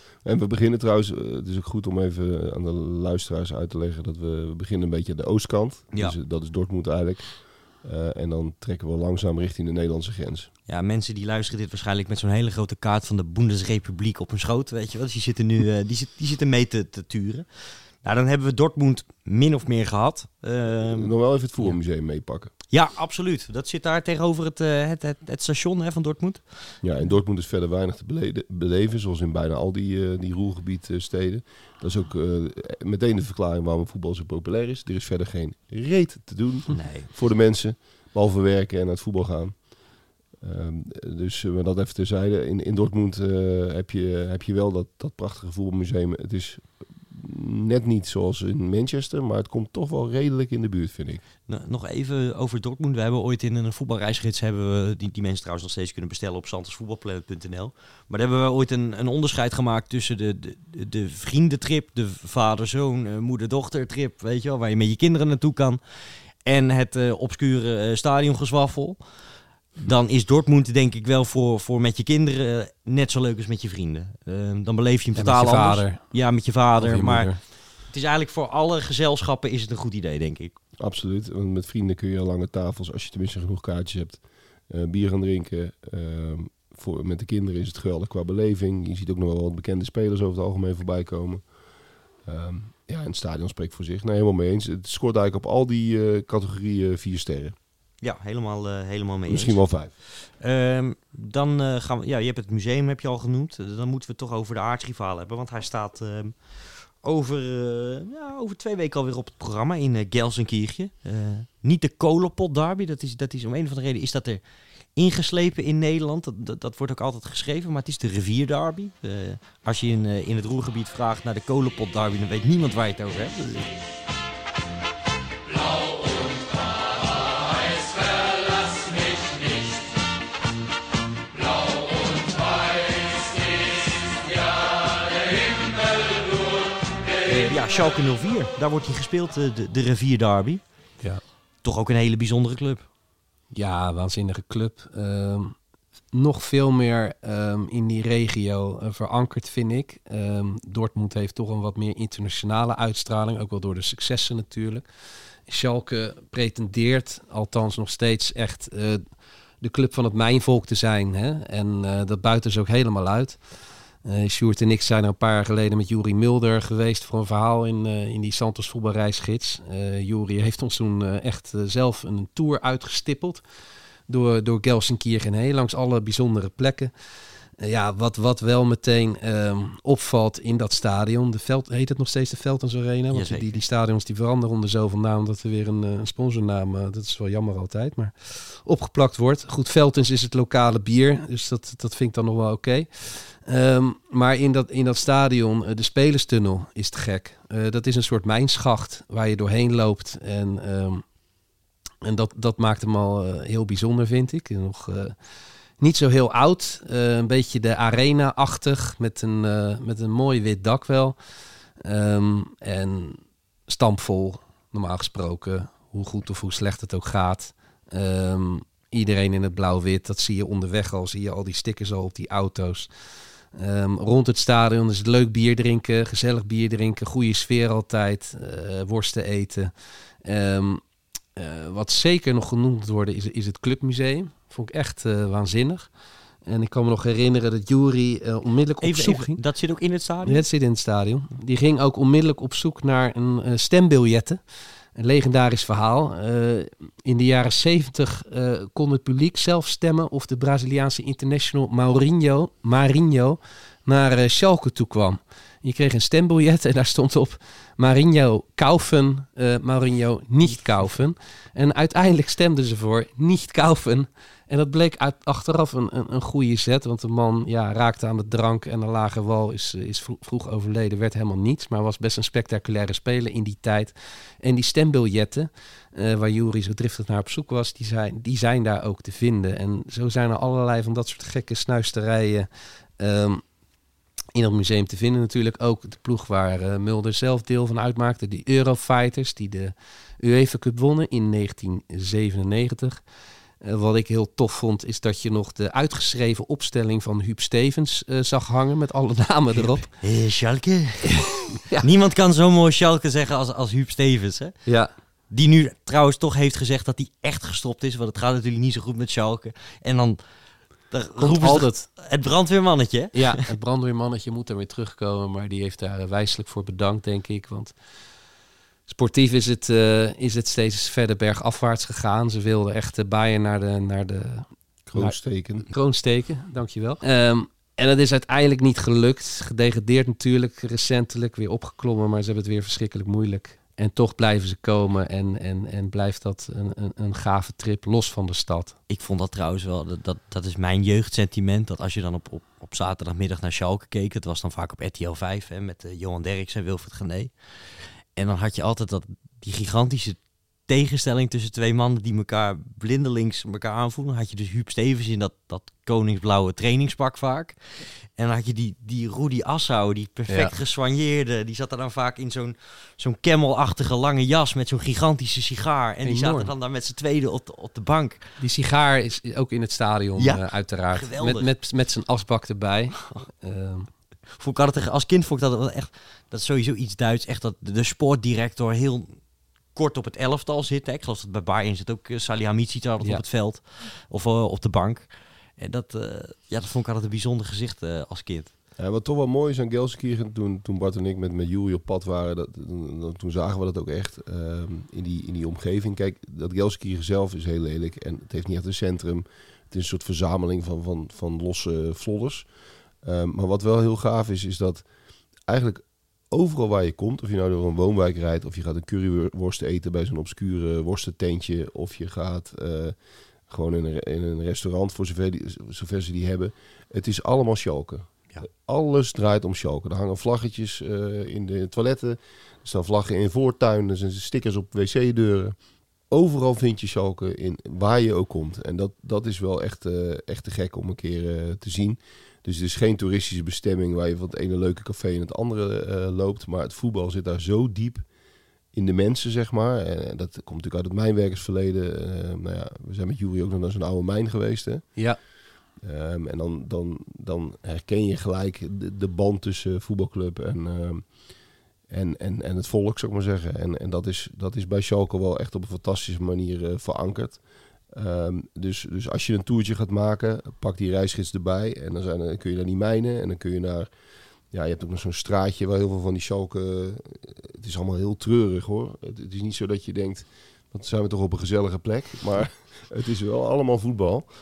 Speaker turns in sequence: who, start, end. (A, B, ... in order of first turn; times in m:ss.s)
0:00.2-0:10.5 A
0:10.7-0:21.8 B
0:20.7-0:22.5 A
0:22.7-0:26.8 B
0:26.8-0:39.7 A
0:36.7-0:37.1 B
0:40.4-0:51.2 A
0:51.5-1:09.0 B
1:09.8-1:20.5 B
1:15.2-1:16.1 C
1:16.8-1:17.4 C
1:20.8-1:31.5 A
1:32.2-1:37.6 A
1:38.0-1:54.4 B
1:39.3-1:39.9 A
1:55.0-2:03.8 B
2:17.2-2:20.6 B
2:21.6-2:22.9 B
2:23.5-2:25.6 C
2:26.1-2:34.8 C
2:35.5-2:39.0 C
2:39.6-2:43.4 C
2:44.0-2:53.4 C
2:54.1-2:56.9 C
2:57.6-3:21.0 C
3:03.1-3:03.6 B
3:22.0-3:25.2 C
3:25.8-3:31.2 C
3:31.8-3:42.9 C
3:43.5-3:49.7 C
3:50.2-3:50.8 C
3:51.4-3:55.9 C
3:56.5-3:59.4 C
3:58.8-4:00.4 B
4:00.2-4:04.4 C
4:05.0-4:42.5 C
4:43.0-4:43.4 C
4:44.3-4:53.0 C
4:53.6-4:59.9 C
4:59.9-5:04.6 B
5:01.6-5:01.8 C
5:04.6-5:04.9 C
5:05.3-5:10.2 B
5:10.9-5:13.3 B
5:11.2-5:11.9 C
5:13.1-5:17.7 C
5:18.9-5:38.8 C
5:24.9-5:25.7 A
5:38.9-5:47.3 B
5:48.2-6:08.2 B
6:00.3-6:00.6 C
6:06.0-6:06.5 C
6:08.4-6:13.9 C
6:10.2-6:11.5 B
6:14.4-6:19.2 B
6:19.8-6:28.5 B
6:28.8-6:42.5 A
6:43.0-6:44.9 A
6:45.4-7:05.6 A
7:06.1-7:18.1 A
7:18.7-7:25.1 A
7:25.8-7:31.3 A
7:31.9-7:43.9 A
7:44.5-7:54.3 A